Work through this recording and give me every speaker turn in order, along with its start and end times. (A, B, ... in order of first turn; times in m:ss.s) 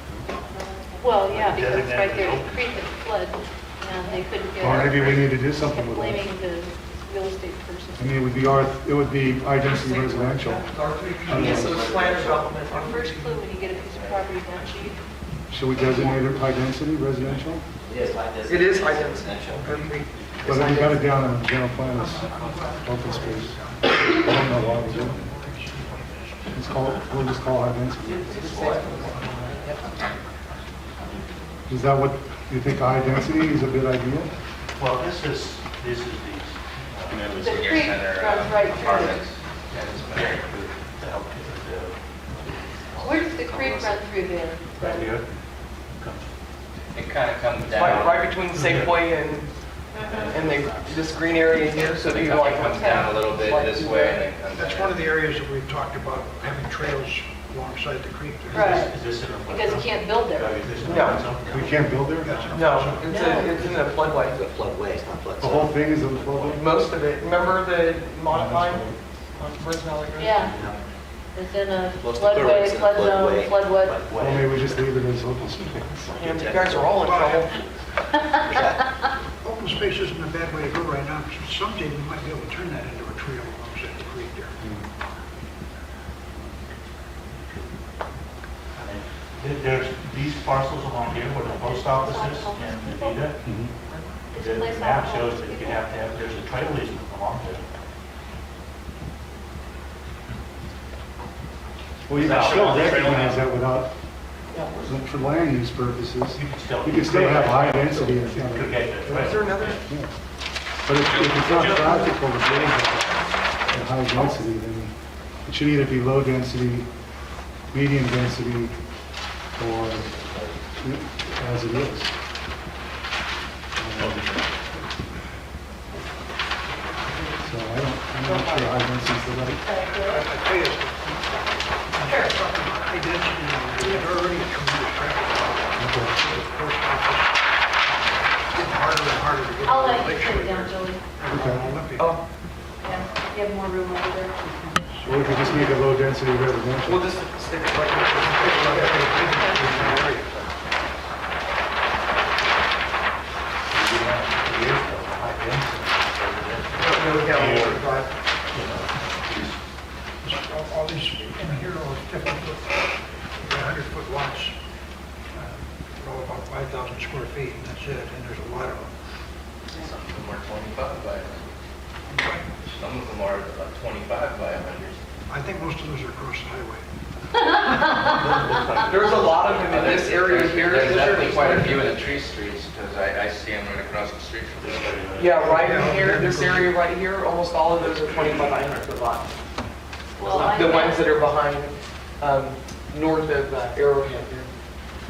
0:01.0-0:08.1 A
0:01.2-0:02.8 B
0:04.6-0:06.3 C
0:04.6-0:05.2 B
0:08.0-0:10.7 C
0:09.5-0:13.4 D
0:11.2-0:12.8 E
0:11.2-0:11.9 C
0:12.7-0:15.0 A
0:15.5-0:17.7 C
0:17.4-0:20.8 E
0:18.4-0:21.1 D
0:19.4-0:20.1 F
0:20.4-0:25.2 C
0:21.9-0:26.6 F
0:26.5-0:28.5 C
0:28.2-0:30.1 D
0:29.0-0:29.3 F
0:31.7-0:34.3 C
0:34.8-0:37.8 B
0:37.4-0:39.2 A
0:37.4-0:40.4 G
0:39.7-0:43.4 B
0:43.0-0:44.6 A
0:43.5-0:43.9 G
0:44.8-0:45.3 B
0:45.9-0:46.3 B
0:46.9-0:48.2 G
0:47.6-0:49.0 B
0:47.7-0:49.5 D
0:50.0-0:50.3 A
0:50.1-0:51.1 E
0:50.2-0:54.2 D
0:52.0-0:55.0 G
0:54.5-0:58.8 F
0:58.5-1:02.8 B
0:58.5-0:58.9 A
0:59.5-1:00.7 A
1:00.8-1:01.3 D
1:00.8-1:02.5 C
1:02.0-1:03.8 F
1:02.5-1:04.4 D
1:03.1-1:03.5 A
1:03.4-1:06.7 E
1:05.4-1:06.7 C
1:06.5-1:10.4 D
1:08.3-1:09.0 B
1:10.2-1:10.6 A
1:10.4-1:10.8 E
1:10.5-1:10.7 B
1:11.3-1:14.0 A
1:12.0-1:14.8 E
1:14.2-1:16.1 C
1:15.7-1:17.0 E
1:16.2-1:17.6 D
1:16.9-1:17.6 F
1:18.4-1:18.9 E
1:19.4-1:24.5 F
1:27.4-1:27.7 B
1:28.8-1:33.4 B
1:31.6-1:33.1 A
1:33.4-1:33.7 C
1:34.3-1:37.6 B
1:34.3-1:35.8 A
1:42.1-1:43.9 C
1:42.1-1:43.4 B
1:44.5-1:44.8 D
1:44.8-1:50.1 C
1:46.4-1:49.8 B
1:49.0-1:49.8 D
1:50.9-1:54.9 C
1:51.0-1:52.7 B
1:55.4-1:56.9 C
1:57.7-1:58.8 C
1:59.6-2:00.1 C
2:00.0-2:00.5 E
2:00.8-2:02.1 C
2:03.8-2:04.3 C
2:04.0-2:04.4 B
2:07.4-2:09.6 C
2:08.2-2:08.7 D
2:09.6-2:10.2 A
2:09.8-2:11.3 F
2:11.9-2:22.2 F
2:12.0-2:12.3 A
2:15.8-2:16.2 C
2:19.6-2:21.0 A
2:21.3-2:21.7 C
2:22.0-2:22.2 D
2:22.8-2:24.4 A
2:25.0-2:25.7 F
2:25.0-2:27.1 C
2:26.8-2:30.1 D
2:27.7-2:30.5 F
2:29.3-2:29.6 A
2:33.7-2:39.6 B
2:36.8-2:38.1 D
2:40.2-2:42.8 F
2:43.4-2:44.6 F
2:45.3-2:48.9 F
2:49.8-2:51.5 G
2:52.1-2:52.4 F
2:52.7-2:55.0 G
2:55.3-2:56.8 F
2:57.7-3:00.0 B
2:58.8-3:02.0 D
2:59.2-3:04.9 G
3:01.0-3:01.5 B
3:04.6-3:06.2 B
3:05.2-3:09.3 D
3:05.5-3:06.7 F
3:07.8-3:08.8 B
3:10.2-3:11.0 A
3:10.2-3:14.5 D